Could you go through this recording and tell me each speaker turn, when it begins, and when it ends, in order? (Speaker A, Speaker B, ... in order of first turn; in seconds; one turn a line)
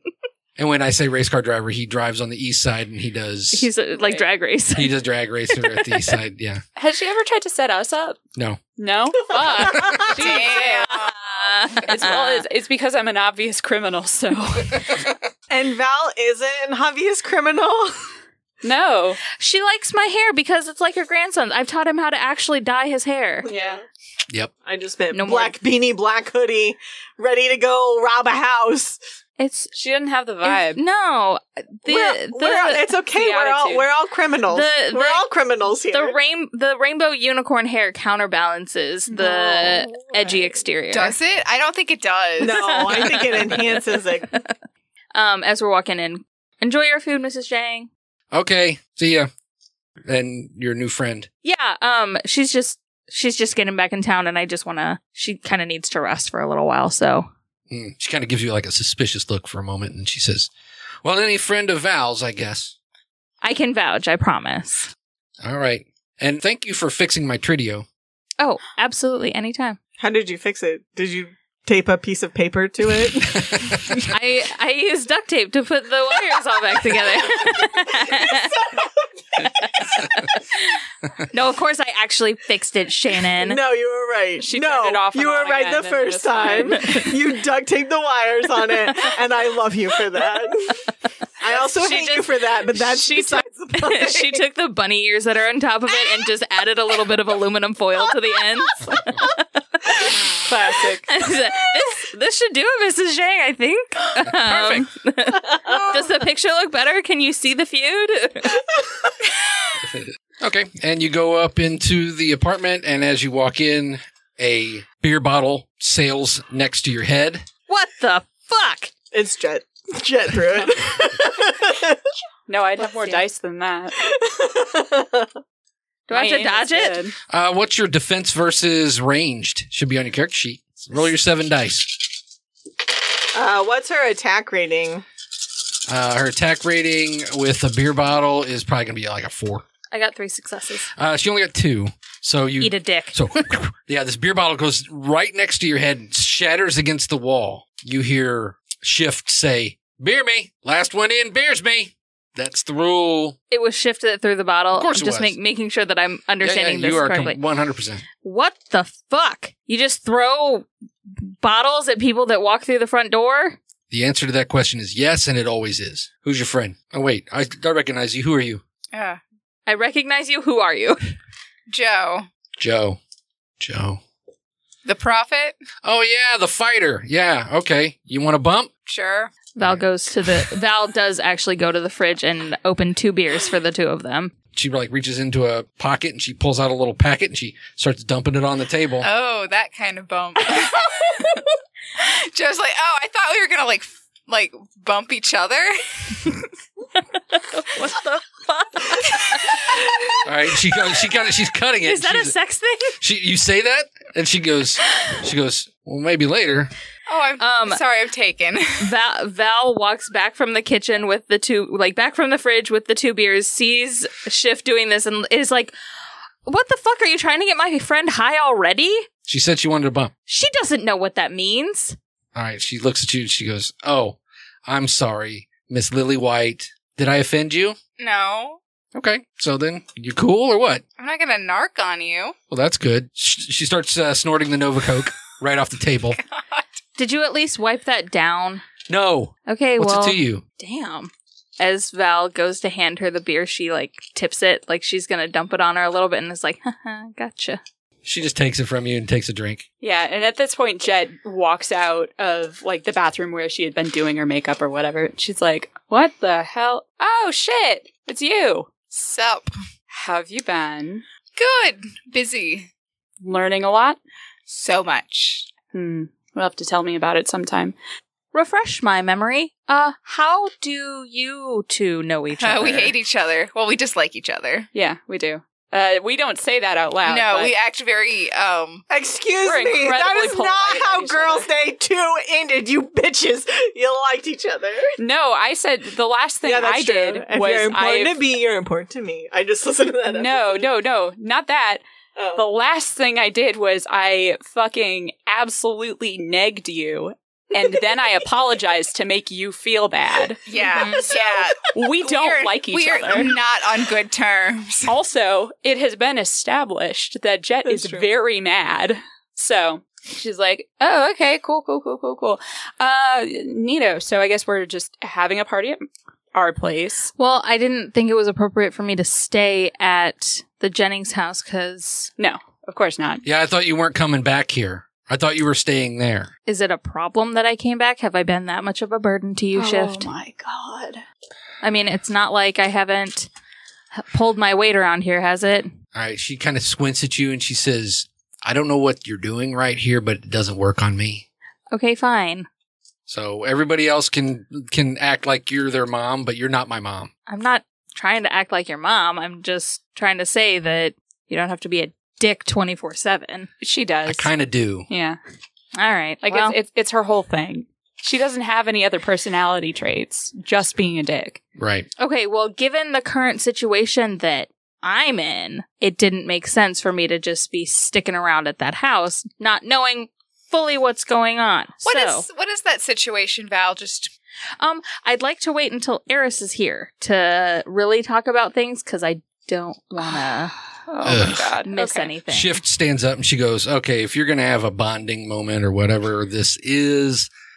Speaker A: 0.6-3.7
Speaker B: 3.5-4.9
Speaker C: 4.0-4.2
Speaker A: 4.7-6.6
Speaker B: 5.5-6.1
Speaker C: 6.8-8.2
Speaker A: 8.3-8.6
Speaker C: 8.7-11.0
Speaker D: 9.3-10.5
Speaker E: 10.2-11.3
Speaker B: 10.2-12.4
Speaker C: 11.6-15.1
Speaker D: 15.5-18.1
Speaker C: 18.6-19.2
Speaker B: 19.3-23.5
Speaker D: 23.4-23.8
Speaker C: 23.5-23.8
Speaker D: 24.6-29.0
Speaker B: 25.1-25.5
Speaker B: 29.4-29.7
Speaker C: 29.7-30.8
Speaker B: 30.4-32.9
Speaker D: 31.9-36.1
Speaker C: 33.1-33.9
Speaker B: 34.5-35.2
Speaker B: 35.9-41.1
Speaker D: 39.2-39.6
Speaker C: 39.2-39.4
Speaker E: 40.9-42.6
Speaker D: 42.4-44.3
Speaker B: 42.4-44.5
Speaker B: 45.1-47.9
Speaker A: 48.3-49.3
Speaker A: 50.0-51.3
Speaker B: 51.4-57.3
Speaker A: 57.7-60.5
Speaker A: 61.0-62.7
Speaker B: 63.4-64.9
Speaker A: 65.4-67.8
Speaker B: 68.4-69.8
Speaker D: 70.0-73.7
Speaker A: 73.4-74.0
Speaker B: 74.1-78.6
Speaker D: 77.4-79.8
Speaker B: 79.4-80.8
Speaker B: 81.3-83.6
Speaker D: 83.3-90.8
Speaker C: 84.4-87.1
Speaker B: 86.7-87.1
Speaker B: 88.9-89.2
Speaker D: 91.4-94.4
Speaker B: 91.5-100.3
Speaker C: 100.4-101.1
Speaker B: 101.0-108.6
Speaker A: 104.2-104.8
Speaker D: 105.5-106.0
Speaker A: 109.8-117.4
Speaker B: 117.7-118.9
Speaker D: 119.1-122.0
Speaker C: 122.5-124.0
Speaker B: 122.8-123.2
Speaker D: 124.0-125.3
Speaker B: 126.1-127.0
Speaker C: 126.1-127.2
Speaker A: 127.3-132.0
Speaker D: 133.3-135.0
Speaker A: 135.9-139.6
Speaker B: 139.9-140.9
Speaker A: 140.9-153.4
Speaker B: 142.6-143.2
Speaker B: 153.5-157.4
Speaker A: 154.7-155.3
Speaker A: 156.4-158.0
Speaker B: 158.2-163.6
Speaker A: 163.9-168.6
Speaker E: 168.9-169.2
Speaker B: 169.7-171.1
Speaker E: 171.7-172.3
Speaker A: 172.6-173.0
Speaker A: 173.6-174.0
Speaker E: 174.8-175.6
Speaker A: 175.8-178.7
Speaker E: 178.8-179.3
Speaker B: 179.5-184.3
Speaker A: 184.5-189.1
Speaker E: 189.0-191.4
Speaker E: 192.0-196.4
Speaker B: 197.3-199.8
Speaker A: 200.2-202.3
Speaker B: 201.8-203.0
Speaker A: 203.0-206.7
Speaker E: 207.1-208.9
Speaker B: 207.4-207.8
Speaker B: 208.8-215.7
Speaker B: 216.4-219.1
Speaker A: 219.2-220.1
Speaker B: 220.3-222.0
Speaker A: 222.3-227.8
Speaker E: 228.0-228.6
Speaker A: 228.9-230.8
Speaker E: 231.0-232.3
Speaker A: 232.5-236.2
Speaker E: 236.2-236.7
Speaker B: 237.0-238.6
Speaker A: 238.9-240.4
Speaker B: 239.5-247.6
Speaker A: 248.0-249.7
Speaker C: 249.8-258.7
Speaker E: 258.9-259.5
Speaker C: 259.9-261.0
Speaker E: 261.4-262.7
Speaker C: 263.2-264.0
Speaker E: 264.5-265.5
Speaker C: 265.7-267.7
Speaker B: 268.3-272.9
Speaker E: 272.4-274.7
Speaker C: 274.7-277.5
Speaker E: 277.0-278.8
Speaker D: 278.9-284.9
Speaker C: 279.4-281.5
Speaker C: 285.0-288.2
Speaker D: 286.4-290.7
Speaker C: 290.1-291.8
Speaker D: 292.1-292.4
Speaker C: 292.3-303.3
Speaker D: 297.6-298.0
Speaker E: 300.5-304.9
Speaker C: 304.9-317.1
Speaker B: 317.2-322.1
Speaker C: 322.2-323.2
Speaker A: 323.2-326.3
Speaker B: 326.4-330.1
Speaker C: 329.5-331.0
Speaker B: 331.6-333.3
Speaker B: 333.9-335.7
Speaker A: 335.9-341.2
Speaker B: 341.7-342.5
Speaker A: 343.1-347.1
Speaker B: 347.3-353.5
Speaker C: 353.6-354.3
Speaker A: 354.0-354.9
Speaker C: 354.9-355.2
Speaker B: 355.8-356.6
Speaker C: 356.2-361.4
Speaker A: 361.6-361.9
Speaker B: 362.0-372.2
Speaker E: 371.8-374.1
Speaker B: 374.6-380.5
Speaker C: 380.8-382.2
Speaker A: 381.0-381.5
Speaker B: 381.6-382.6
Speaker A: 382.3-387.3